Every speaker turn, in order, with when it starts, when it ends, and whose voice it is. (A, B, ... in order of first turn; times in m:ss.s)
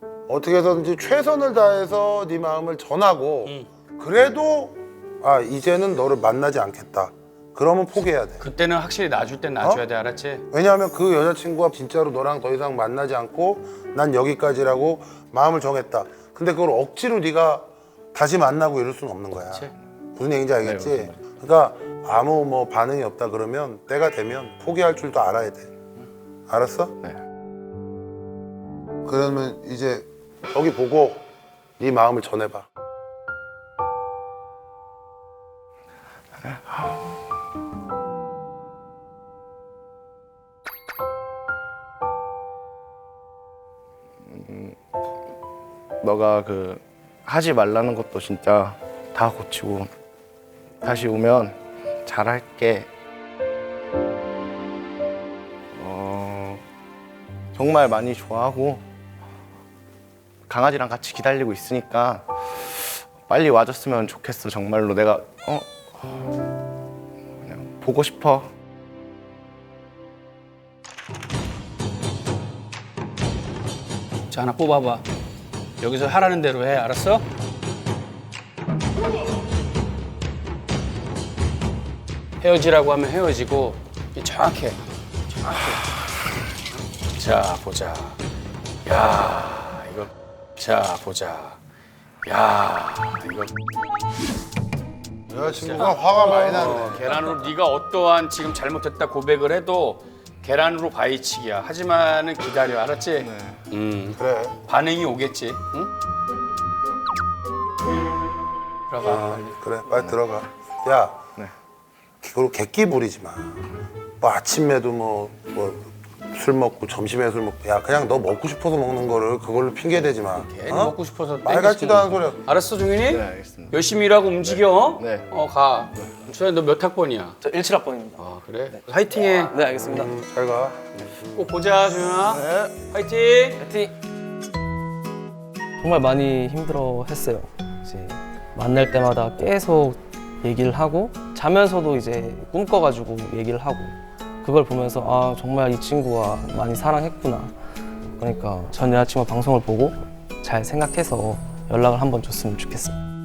0:00.3-0:08.5 A
0:08.4-0:10.4 B
0:10.5-0:25.7 A
0:20.6-0:21.2 C
0:26.5-0:27.0 A
0:29.1-0:31.2 A
0:31.8-0:32.7 A
0:36.4-0:37.0 C
0:44.2-0:44.8 C
0:46.0-0:49.9 C
0:50.8-0:52.9 C
0:55.7-0:56.6 C
0:57.6-0:58.9 C
1:00.5-1:06.3 C
1:07.4-1:08.5 C
1:14.3-1:15.0 B
1:15.8-1:17.2 B
1:22.4-1:24.8 B
1:25.5-1:25.8 B
1:27.2-1:28.2 B
1:28.8-1:31.6 B
1:32.2-1:33.5 B
1:35.3-1:37.1 A
1:35.4-1:45.9 B
1:36.5-1:37.0 C
1:43.2-1:43.6 C
1:44.2-1:44.6 A
1:48.9-1:49.6 B
1:49.0-1:51.2 A
1:52.2-1:53.6 A
1:54.2-2:02.4 A
2:00.2-2:07.4 B
2:03.1-2:03.8 C
2:04.4-2:05.4 C
2:07.4-2:08.8 D
2:08.2-2:09.6 B
2:09.4-2:10.1 D
2:09.7-2:11.5 A
2:11.3-2:13.6 B
2:12.3-2:12.7 C
2:13.6-2:13.9 D
2:15.8-2:27.5 D
2:28.2-2:33.0 D